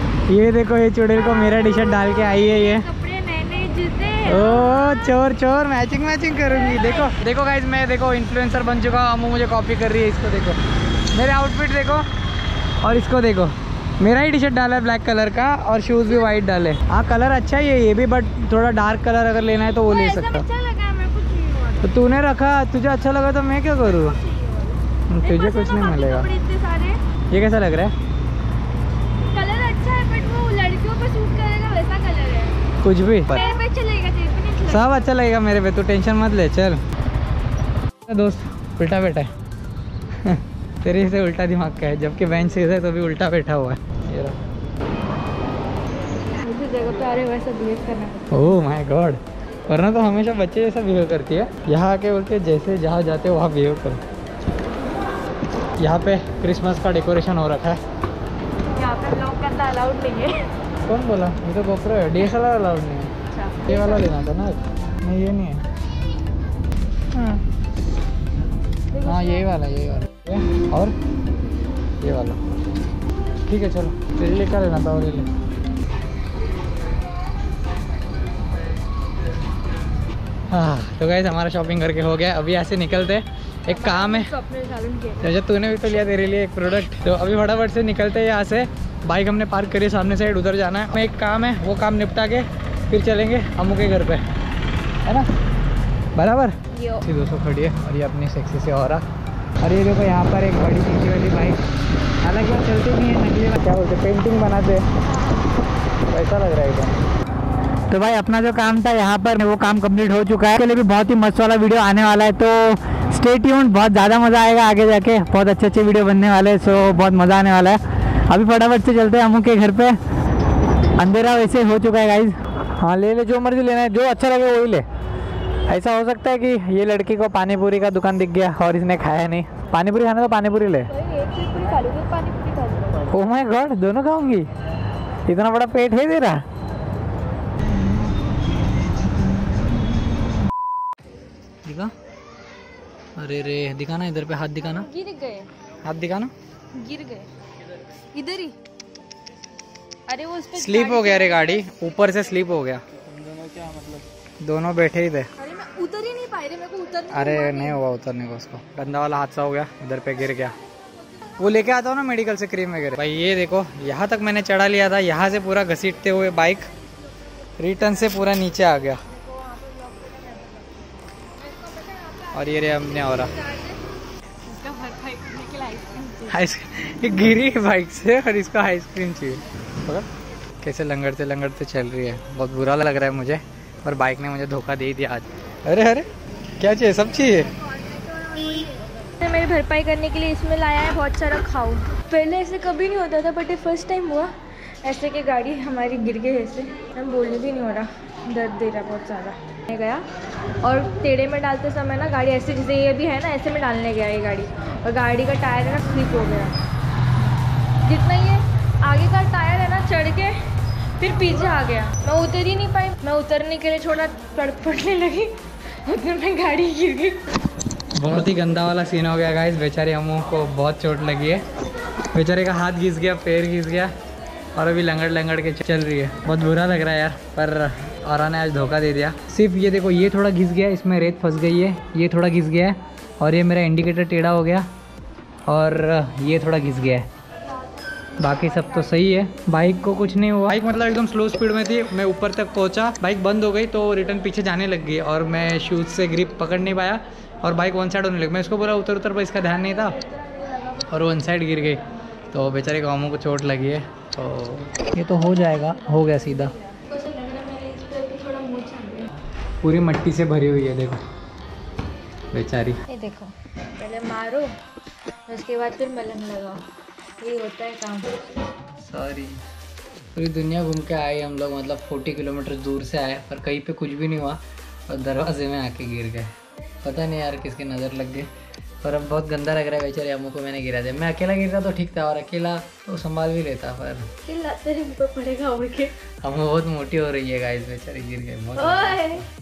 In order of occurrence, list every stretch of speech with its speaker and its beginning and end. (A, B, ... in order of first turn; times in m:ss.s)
0:00.3-0:02.8 A
0:01.3-0:05.1 B
0:04.2-0:10.6 A
0:06.5-0:07.1 B
0:11.1-0:12.1 A
0:12.8-0:20.4 A
0:19.8-0:22.0 B
0:21.8-0:24.2 A
0:24.1-0:27.0 B
0:25.1-0:26.3 A
0:27.3-0:27.9 A
0:29.2-0:32.6 B
0:32.8-0:33.4 A
0:33.3-0:35.1 B
0:34.6-0:36.8 A
0:38.1-0:39.3 A
0:40.2-0:44.4 A
0:46.4-0:48.2 B
0:48.3-0:54.0 A
0:55.8-0:57.8 A
0:58.7-1:00.5 B
1:00.8-1:05.6 A
1:03.3-1:04.1 B
1:07.1-1:07.4 A
1:08.9-1:09.5 B
1:09.0-1:11.0 A
1:12.0-1:12.4 A
1:13.5-1:15.3 A
1:20.5-1:24.3 A
1:23.7-1:25.2 B
1:25.2-1:34.2 A
1:35.0-1:35.3 A
1:36.1-1:39.0 A
1:36.7-1:37.0 B
1:39.6-1:41.6 A
1:42.2-1:44.9 A
1:45.1-1:45.4 B
1:46.1-1:47.0 A
1:47.9-2:00.0 A
2:01.0-2:04.8 A
2:05.7-2:10.9 A
2:10.9-2:13.0 B
2:13.1-2:14.5 A
2:15.2-2:16.4 A
2:21.6-2:21.9 A
2:23.2-2:24.9 A
2:24.7-2:25.5 B
2:25.8-2:26.3 A
2:26.7-2:27.3 B
2:27.9-2:28.6 B
2:30.1-2:31.8 B
2:30.5-2:35.3 A
2:35.4-2:37.8 B
2:37.1-2:40.6 A
2:41.4-2:46.7 A
2:47.6-2:49.0 A
2:49.0-2:50.8 B
2:51.4-2:53.8 B
2:52.3-2:53.3 A
2:54.4-2:56.4 B
2:56.3-3:00.1 A
3:00.6-3:06.1 A
3:06.6-3:07.5 A
3:07.9-3:20.0 B
3:20.6-3:26.6 B
3:27.8-3:30.4 B
3:31.0-3:37.4 B
3:37.9-3:41.4 A
3:42.1-3:43.9 A
3:44.5-3:54.7 A
3:55.4-3:57.1 A
3:58.2-4:10.0 A
4:10.8-4:16.6 A
4:15.5-4:19.1 B
4:19.6-4:21.0 A
4:22.3-4:22.8 A
4:22.9-4:24.5 B
4:25.3-4:26.6 B
4:27.2-4:28.2 B
4:28.8-4:29.4 A
4:30.1-4:38.3 A
4:38.8-4:44.1 A
4:44.2-4:46.0 B
4:46.2-4:49.3 A
4:48.6-4:49.3 B